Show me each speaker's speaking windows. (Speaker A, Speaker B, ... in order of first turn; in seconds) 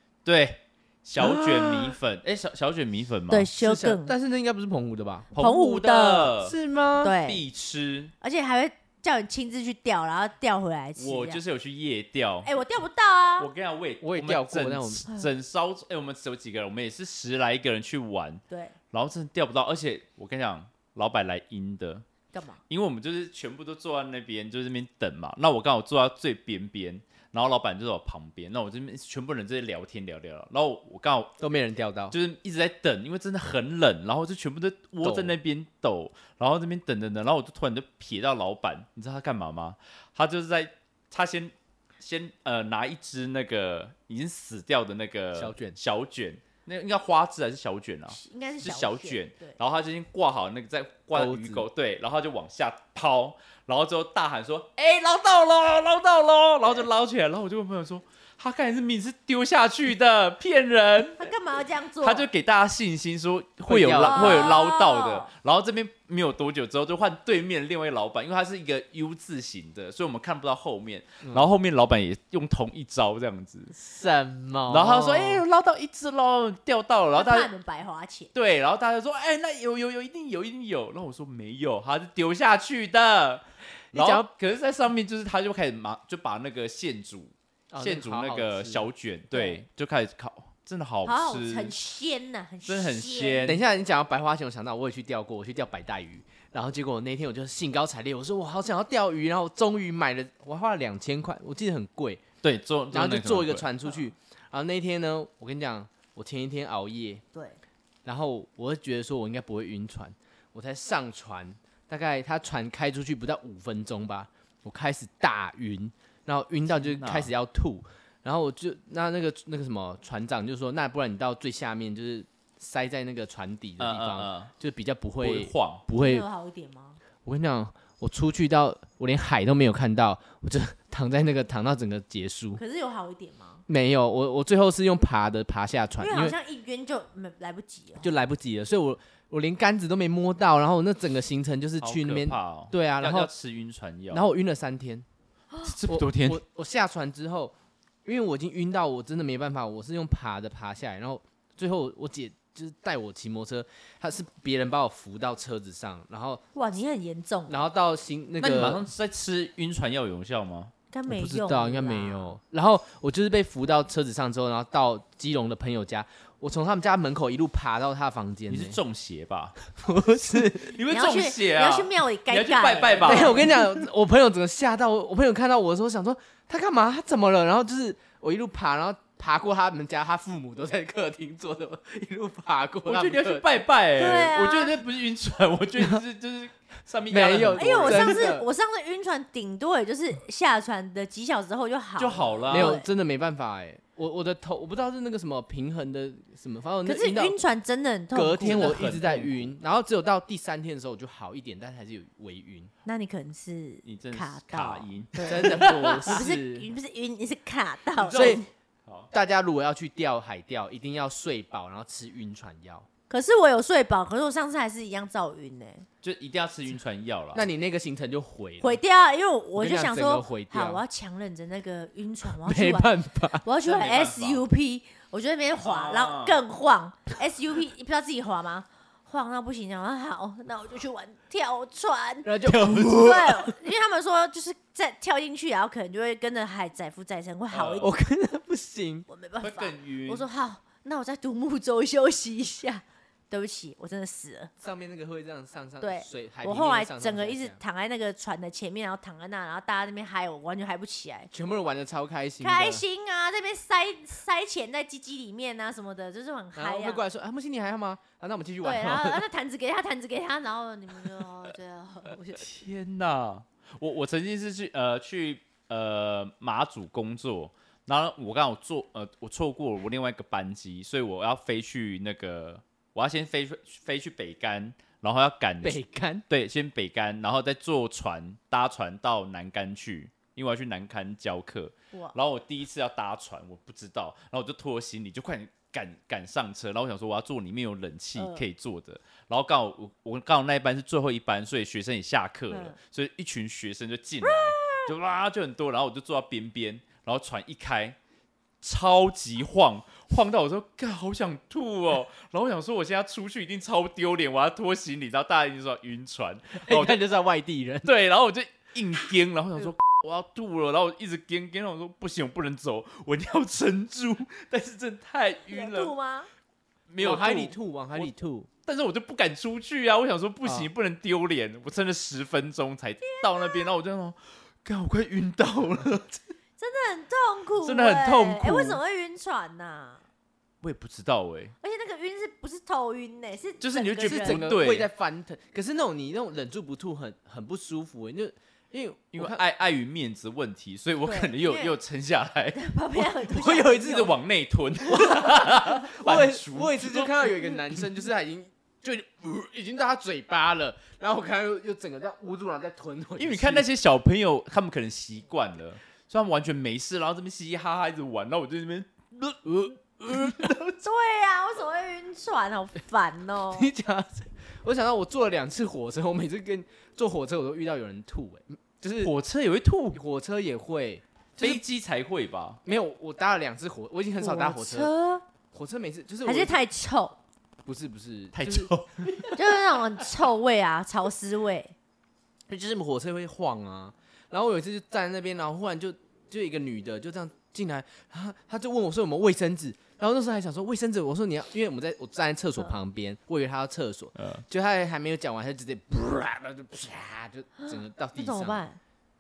Speaker A: 0.2-3.5, 5.3-6.6, 7.2-8.1, 11.0-12.5, 13.4-22.1, 22.7-31.4, 32.1-61.3, 62.0-73.8, 74.7-77.5, 78.3-91.8, 92.6-93.6, 102.4-103.7, 116.7-117.3, 123.8-124.5, 125.2-125.8, 141.8-144.3, 145.6-146.4, 158.4-160.7, 168.5-169.6, 170.4-173.6, 182.9-188.3, 192.0-192.8, 198.4-199.5, 203.8-206.2, 208.0-209.1, 216.0-217.5, 223.6-224.4, 225.6-226.4, 237.5-237.9, 239.4-240.3, 262.4-298.0, 298.6-307.0, 307.8-315.9, 316.9-318.1, 318.6-326.2, 327.6-328.8, 330.6-331.5, 333.6-334.9, 339.1-342.6, 343.8-347.9, 353.2-360.8, 369.0-370.0, 371.4-372.6, 378.3-379.3, 394.2-394.4
Speaker B: 1.2-2.0, 3.6-5.3, 6.4-7.2, 14.0-15.1, 31.4-32.1, 35.0-35.4, 45.3-45.8, 51.1-51.7, 63.6-64.5, 73.8-75.5, 83.9-84.3, 87.7-88.9, 93.4-102.2, 102.9-107.2, 108.0-126.3, 127.2-132.6, 133.7-136.4, 138.0-143.3, 144.1-145.1, 145.9-147.5, 148.1-156.4, 157.5-158.8, 161.1-168.8, 169.7-170.8, 173.0-183.6, 187.1-188.5, 192.5-197.4, 198.1-202.7, 205.2-206.7, 208.1-208.4, 209.1-212.9, 217.3-218.8, 219.6-220.8, 222.4-223.4, 232.2-233.6, 237.8-239.1, 244.6-247.6, 251.3-252.8, 256.6-259.3, 275.6-276.2, 306.6-307.9, 317.0-318.5, 320.4-320.7, 334.0-339.4, 343.2-344.1, 344.9-353.7, 359.5-360.6, 363.5-369.1, 369.9-371.6, 372.6-374.9, 375.5-376.6, 377.6-379.4, 382.5-398.6
Speaker C: 3.3-4.1, 5.4-6.3, 7.0-7.4, 8.2-11.4, 12.4-13.5, 18.5-18.8, 22.3-22.6, 48.1-49.6, 61.2-62.3, 64.0-65.3, 77.1-78.3, 89.3-89.6, 91.0-93.5, 107.3-107.6, 125.9-127.0, 132.6-133.6, 136.0-138.1, 156.5-157.6, 160.9-162.3, 170.9-173.6, 184.0-184.8, 187.5-192.9, 196.8-198.9, 202.8-208.4, 213.1-215.9, 218.6-237.9, 239.1-244.5, 245.8-251.3, 252.4-257.0, 258.6-262.5, 288.1-288.4, 292.5-292.8, 294.2-294.9, 315.5-316.3, 323.0-323.7, 326.6-330.0, 331.6-334.6, 341.0-341.8, 342.5-344.1, 360.8-363.7, 374.2-375.2, 376.2-377.2, 379.4-381.8, 397.6-398.8